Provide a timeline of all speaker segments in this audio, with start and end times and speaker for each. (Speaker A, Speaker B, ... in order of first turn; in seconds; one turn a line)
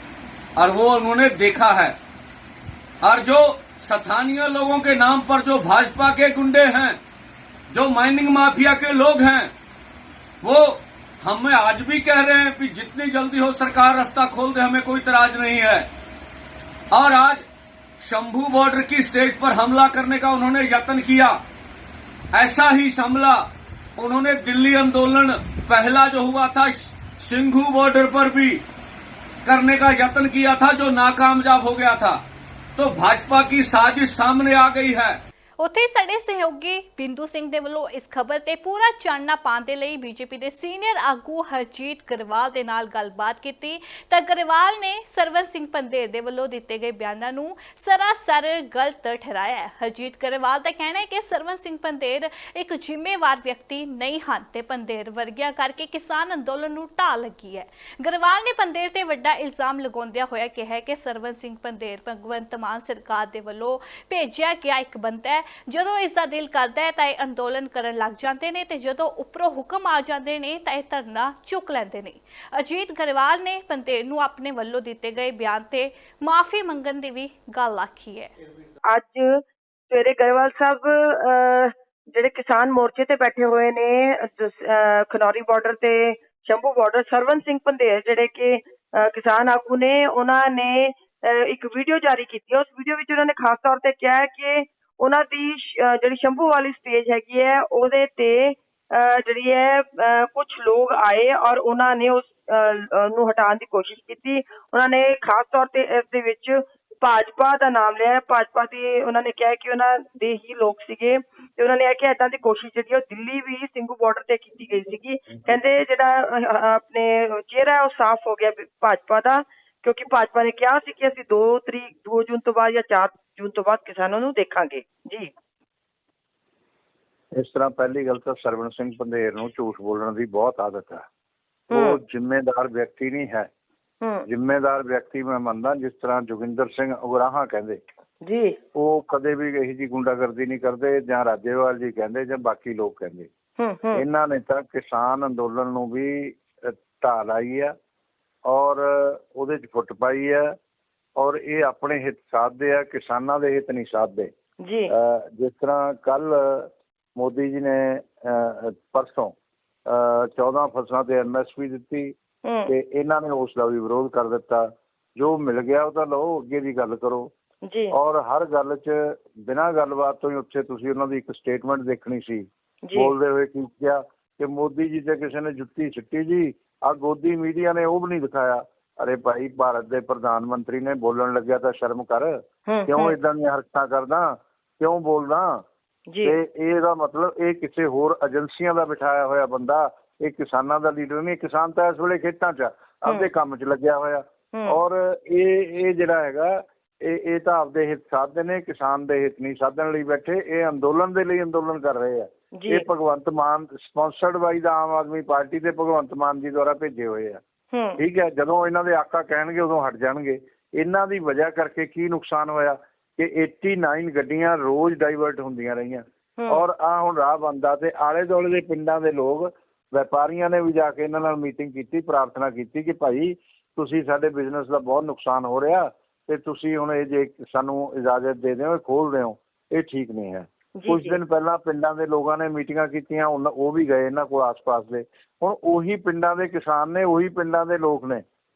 Speaker A: 0.6-1.9
Speaker A: 3.0-7.0
Speaker A: 7.7-9.5
Speaker A: 10.4-15.9
Speaker A: 16.9-17.4
Speaker A: 18.0-21.4
Speaker A: 22.3-23.4
Speaker A: 24.0-28.6
Speaker A: 29.4-32.2
Speaker A: 32.8-35.2
Speaker B: 35.6-78.3
Speaker C: 78.9-125.3
Speaker D: 127.3-131.0
Speaker C: 131.7-132.0
Speaker D: 131.7-133.5
Speaker D: 134.3-137.8
Speaker C: 138.2-138.6
Speaker D: 138.7-143.3
Speaker C: 143.6-144.0
Speaker D: 143.9-147.7
Speaker D: 148.5-150.5
Speaker D: 151.2-154.3
Speaker C: 154.6-154.9
Speaker D: 154.9-159.3
Speaker D: 159.9-162.1
Speaker C: 162.4-162.7
Speaker D: 162.7-167.3
Speaker C: 167.6-167.9
Speaker D: 167.9-185.6
Speaker C: 172.8-173.1
Speaker C: 182.7-183.1
Speaker C: 186.1-186.3
Speaker D: 186.2-207.4
Speaker C: 202.5-202.8
Speaker C: 207.7-208.0
Speaker D: 208.0-238.2
Speaker C: 216.4-216.6
Speaker C: 230.8-231.2